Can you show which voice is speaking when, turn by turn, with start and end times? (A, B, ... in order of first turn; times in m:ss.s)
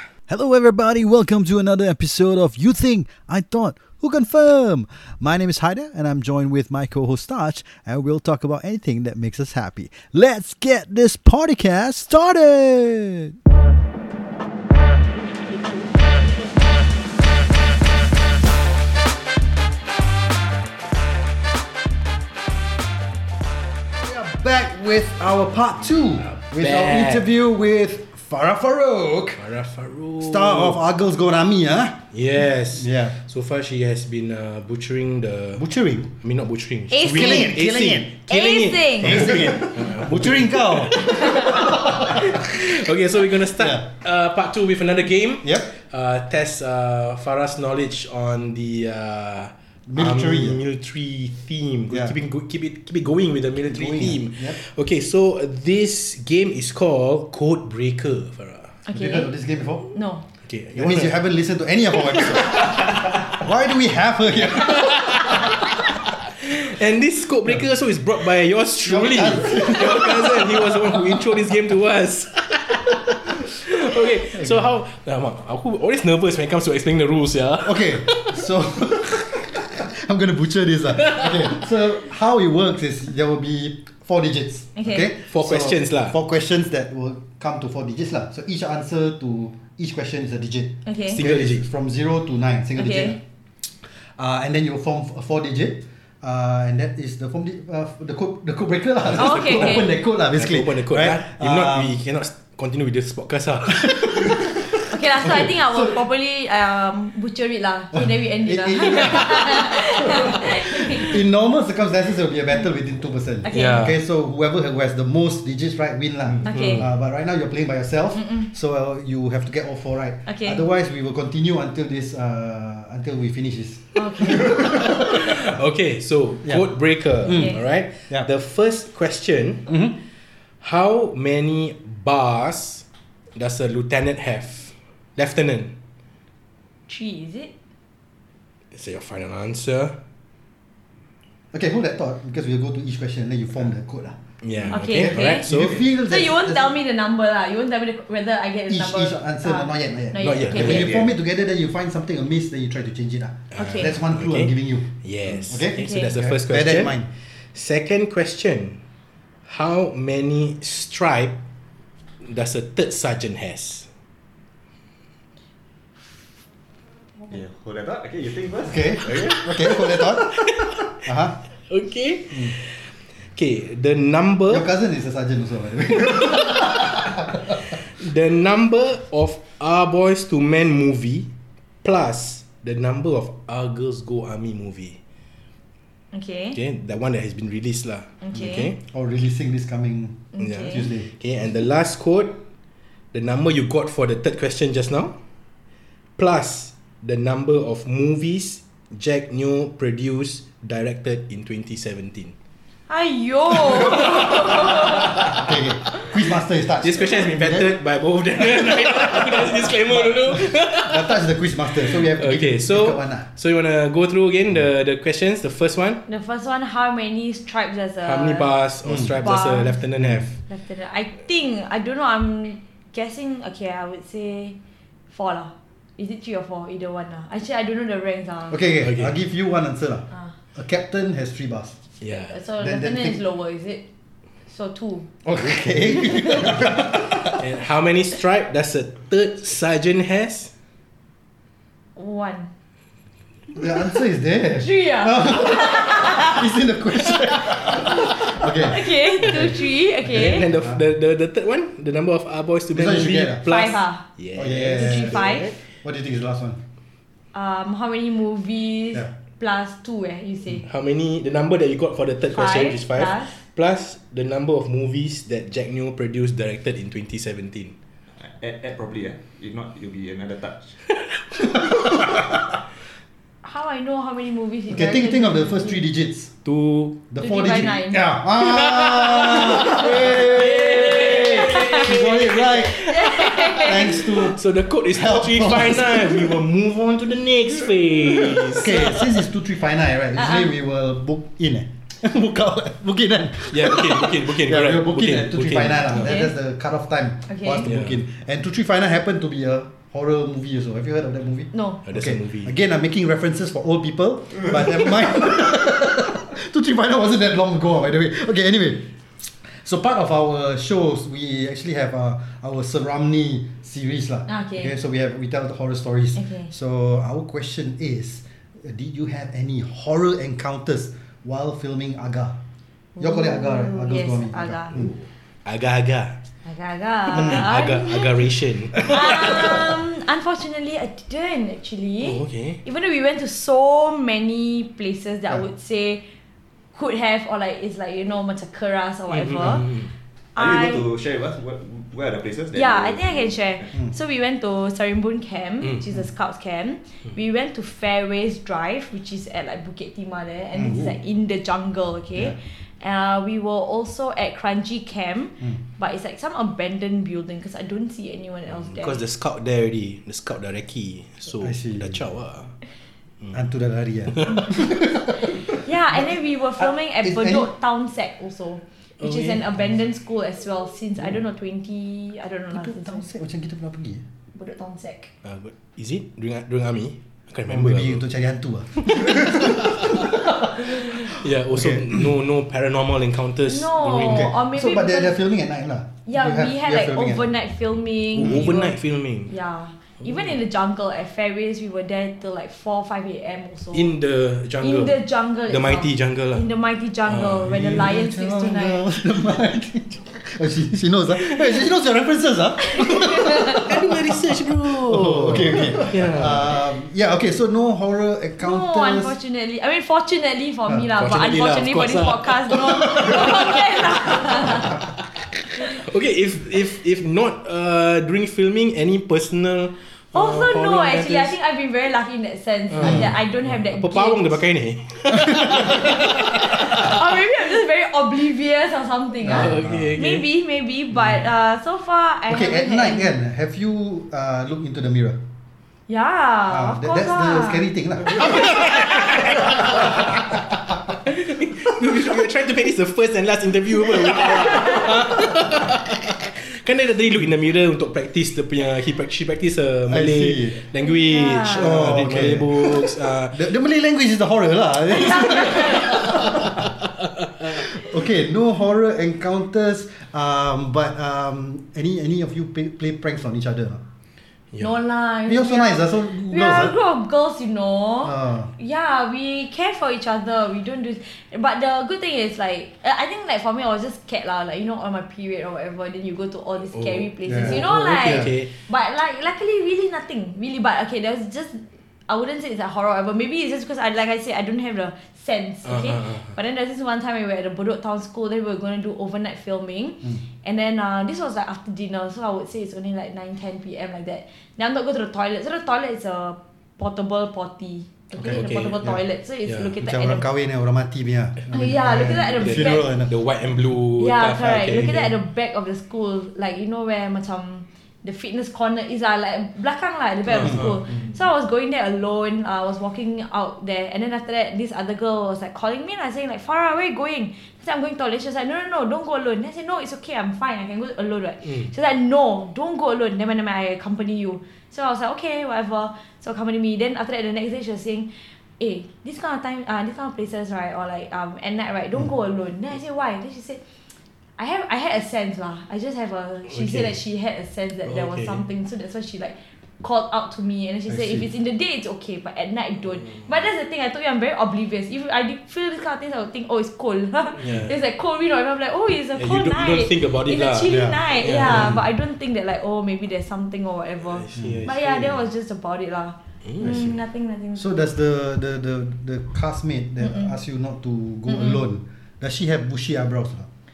0:00.3-0:13.4 A
0:24.0-0:29.4 A
0:26.2-0:27.2 B
0:29.4-0:30.8 B
0:30.2-0:32.0 A
0:32.1-0:35.6 B
0:32.8-0:33.1 A
0:35.6-0:36.1 A
0:36.2-0:58.8 B
0:36.9-0:37.6 C
0:37.0-0:38.1 A
0:38.3-0:39.4 C
0:39.0-0:42.3 A
0:49.9-0:50.6 A
0:53.6-0:54.6 A
0:58.9-0:59.3 C
0:58.9-0:59.9 A
0:59.9-1:00.2 C
1:00.4-1:01.2 B
1:00.8-1:05.6 A
1:02.1-1:03.3 B
1:04.5-1:18.4 B
1:08.8-1:11.4 A
1:17.6-1:33.2 A
1:24.8-1:25.1 C
1:25.3-1:26.2 B
1:30.8-1:31.2 C
1:31.1-1:31.6 B
1:32.8-1:33.2 C
1:34.2-1:42.0 A
1:39.2-1:39.9 C
1:39.2-1:44.4 B
1:43.9-1:44.5 A
1:44.9-1:51.2 C
1:45.2-1:46.0 A
1:47.9-2:05.5 A
1:53.4-1:53.9 C
1:53.5-1:54.0 B
1:56.4-1:56.9 C
1:56.5-1:56.9 B
1:58.2-1:58.4 C
2:00.2-2:00.6 C
2:03.9-2:04.6 C
2:04.6-2:09.7 B
2:07.2-2:07.5 A
2:07.3-2:07.6 C
2:09.7-2:10.0 A
2:10.6-2:15.7 B
2:16.9-2:17.5 C
2:18.7-2:20.0 B
2:21.5-2:24.2 A
2:24.4-2:25.8 B
2:24.7-2:25.5 C
2:24.9-2:26.7 A
2:26.0-2:31.0 C
2:28.7-2:37.1 A
2:30.2-2:31.0 B
2:30.6-2:31.1 D
2:33.5-2:37.0 B
2:33.6-2:33.9 C
2:35.8-2:36.1 C
2:37.5-2:38.8 B
2:39.4-2:41.4 B
2:42.2-2:43.9 B
2:47.3-2:49.4 D
2:48.6-2:50.3 A
2:49.0-2:51.0 B
2:51.0-2:51.4 A
2:51.7-2:54.6 B
2:54.5-2:57.4 A
2:56.0-2:56.9 B
2:58.0-3:01.3 B
3:01.8-3:05.0 B
3:06.1-3:06.6 C
3:06.5-3:08.8 B
3:08.2-3:08.7 C
3:08.9-3:11.1 A
3:10.3-3:10.9 C
3:10.4-3:12.4 B
3:13.1-3:15.2 B
3:16.2-3:22.3 B
3:22.9-3:25.3 C
3:23.9-3:25.1 B
3:24.1-3:27.7 A
3:26.8-3:31.2 B
3:28.8-3:33.2 A
3:31.8-3:36.0 B
3:36.1-3:38.5 C
3:38.0-3:40.3 B
3:39.2-3:39.8 C
3:40.4-3:44.6 C
3:45.1-3:48.6 C
3:48.5-3:51.8 A
3:48.8-3:49.1 B
3:52.0-3:52.4 B
3:52.0-3:53.8 C
3:52.6-3:53.2 A
3:54.5-3:55.1 C
3:55.2-3:57.4 A
3:55.4-4:00.5 B
4:02.0-4:02.5 C
4:03.5-4:09.5 A
4:04.6-4:06.4 C
4:07.5-4:10.4 C
4:09.4-4:15.6 B
4:10.2-4:10.8 A
4:12.7-4:13.4 A
4:13.5-4:14.0 C
4:14.3-4:16.6 A
4:14.7-4:15.5 C
4:17.3-4:20.6 C
4:20.6-4:27.7 B
4:22.3-4:23.4 C
4:28.2-4:30.8 D
4:31.6-4:32.2 A
4:33.4-4:35.8 C
4:34.7-4:36.3 A
4:36.4-4:37.0 B
4:37.1-4:42.8 A
4:37.2-4:38.0 C
4:38.4-4:48.9 B
4:41.0-4:44.0 C
4:43.6-4:46.4 A
4:48.5-5:08.9 A
4:50.2-4:50.5 C
4:53.5-4:56.2 B
4:56.0-4:56.3 C
4:57.3-4:57.6 C
4:57.6-4:58.0 B
5:01.5-5:01.8 C
5:01.8-5:02.5 B
5:09.4-5:22.4 A
5:14.3-5:14.7 C
5:16.2-5:16.5 C
5:23.0-5:24.8 C
5:23.0-5:24.9 A
5:25.4-5:26.2 B
5:26.4-5:36.0 C
5:27.1-5:29.6 B
5:32.0-5:32.6 B
5:36.7-5:39.7 C
5:39.1-5:39.9 B
5:40.3-5:40.9 C
5:40.4-5:43.7 D
5:42.5-5:59.0 C
5:50.6-5:50.9 A
5:58.5-6:02.5 B
6:01.4-6:02.0 A
6:03.3-6:06.1 A
6:05.5-6:13.0 C
6:06.6-6:07.5 A
6:09.0-6:09.4 B
6:12.5-6:14.0 A
6:14.3-6:15.1 C
6:15.2-6:18.0 B
6:17.5-6:22.0 A
6:18.9-6:24.3 B
6:23.4-6:25.2 C
6:24.0-6:27.3 A
6:26.0-6:28.7 C
6:28.2-6:29.3 B
6:28.2-6:28.5 A
6:29.3-6:33.9 C
6:33.7-6:36.4 B
6:34.6-6:38.8 C
6:37.0-6:37.8 B
6:37.5-6:49.1 A
6:42.7-6:43.7 C
6:43.6-6:46.5 B
6:48.4-6:54.8 C
6:51.0-7:01.3 B
7:00.1-7:04.4 C
7:02.7-7:07.1 B
7:02.8-7:03.1 A
7:05.3-7:05.6 A
7:05.5-7:13.1 C
7:09.2-7:09.9 A
7:09.2-7:10.2 B
7:12.3-7:15.2 A
7:15.9-7:17.6 C
7:16.5-7:18.8 A
7:18.2-7:20.4 B
7:21.0-7:33.4 B
7:29.9-7:30.6 A
7:30.8-7:31.8 C
7:31.5-7:36.7 A
7:35.0-7:35.9 C
7:36.2-7:36.7 B
7:37.4-7:43.8 A
7:44.6-8:20.2 C
7:45.3-7:46.8 A
7:48.0-7:48.5 A
7:56.7-7:58.5 B
7:57.2-7:58.3 A
8:05.6-8:06.4 B
8:18.2-8:18.8 B
8:19.4-8:19.7 B
8:19.8-8:23.1 A
8:21.5-8:22.9 C
8:22.4-8:25.1 B
8:24.0-8:53.6 C
8:30.3-8:30.8 B
8:54.4-9:17.7 C
8:56.5-8:56.9 B
8:57.8-8:58.4 B
9:00.9-9:01.2 A
9:07.4-9:07.7 B
9:09.2-9:11.8 B
9:10.7-9:11.8 A
9:14.1-9:15.2 B
9:14.3-9:14.6 A
9:16.4-9:16.9 B
9:16.6-9:16.9 A
9:17.6-9:23.5 A
9:20.0-9:20.3 C
9:21.3-9:21.6 C